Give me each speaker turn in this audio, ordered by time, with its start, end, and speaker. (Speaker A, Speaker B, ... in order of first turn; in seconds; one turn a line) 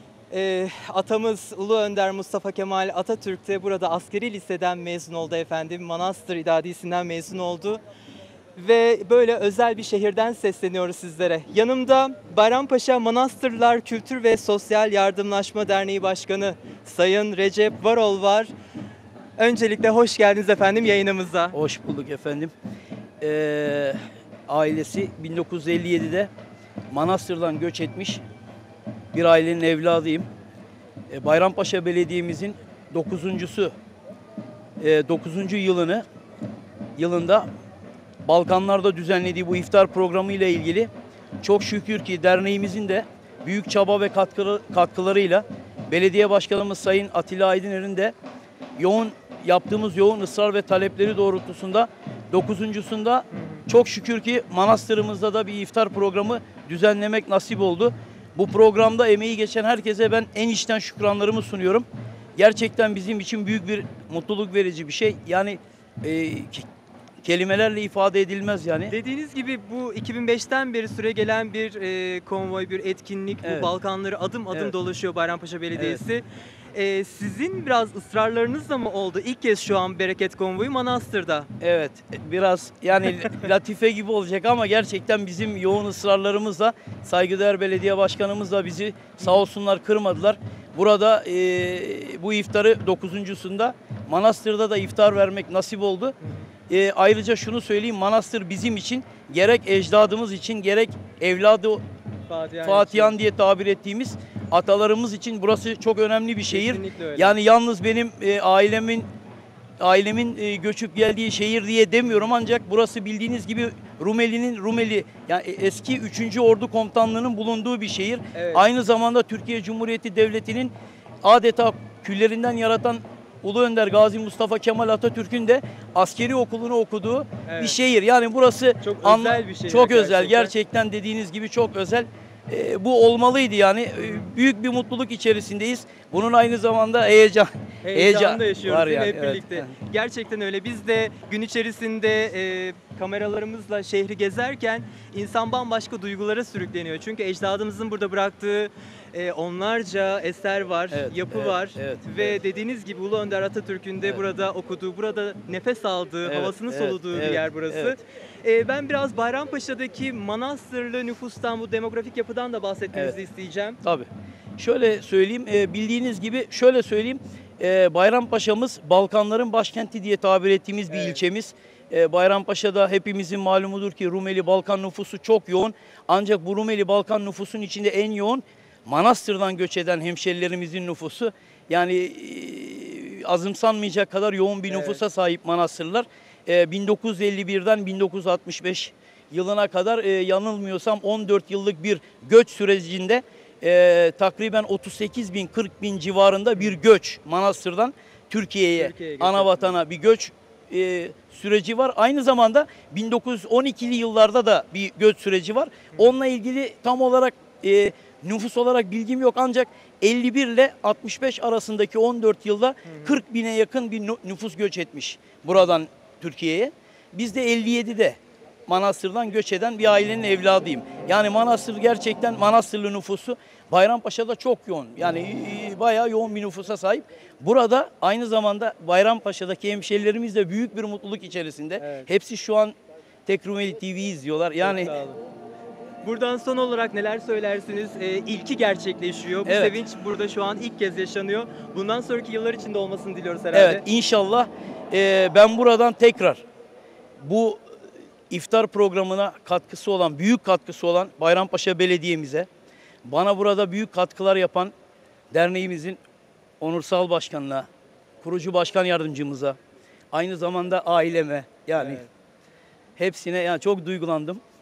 Speaker A: 0.3-7.8
Speaker A: 8.5-18.5
Speaker A: 19.4-21.6
Speaker B: 21.5-22.5
Speaker B: 23.2-24.0
Speaker B: 24.5-26.3
Speaker B: 26.9-28.2
Speaker B: 29.1-30.3
Speaker B: 31.1-33.7
Speaker B: 34.8-36.0
Speaker B: 37.0-37.5
Speaker B: 38.2-40.9
Speaker B: 41.4-48.1
Speaker B: 48.8-61.9
Speaker B: 62.4-66.7
Speaker B: 67.2-68.9
Speaker A: 68.9-81.5
Speaker B: 73.4-73.7
Speaker B: 75.8-76.0
Speaker B: 81.6-96.1
Speaker A: 96.2-96.5
Speaker B: 96.7-101.8
Speaker A: 102.3-103.2
Speaker B: 102.6-109.0
Speaker A: 106.5-107.3
Speaker B: 109.8-120.7
Speaker A: 118.3-118.7
Speaker B: 121.2-139.7
Speaker A: 127.4-127.8
Speaker A: 128.8-130.5
Speaker A: 134.0-134.3
Speaker A: 137.8-163.8
Speaker B: 150.9-152.3
Speaker B: 156.2-158.0
Speaker B: 163.8-232.7
Speaker A: 170.9-171.2
Speaker A: 184.7-185.0
Speaker A: 196.6-196.8
Speaker A: 198.7-199.7
Speaker A: 212.8-213.2
Speaker A: 231.8-232.1
Speaker B: 233.2-234.9
Speaker A: 234.6-235.2
Speaker A: 236.0-243.8
Speaker B: 239.4-239.8
Speaker B: 243.5-246.4
Speaker B: 247.2-247.6
Speaker B: 248.3-252.5
Speaker B: 253.1-254.7
Speaker B: 255.3-256.0
Speaker B: 256.6-257.6
Speaker B: 258.2-259.6
Speaker B: 260.1-262.0
Speaker A: 261.7-262.1
Speaker B: 263.0-264.4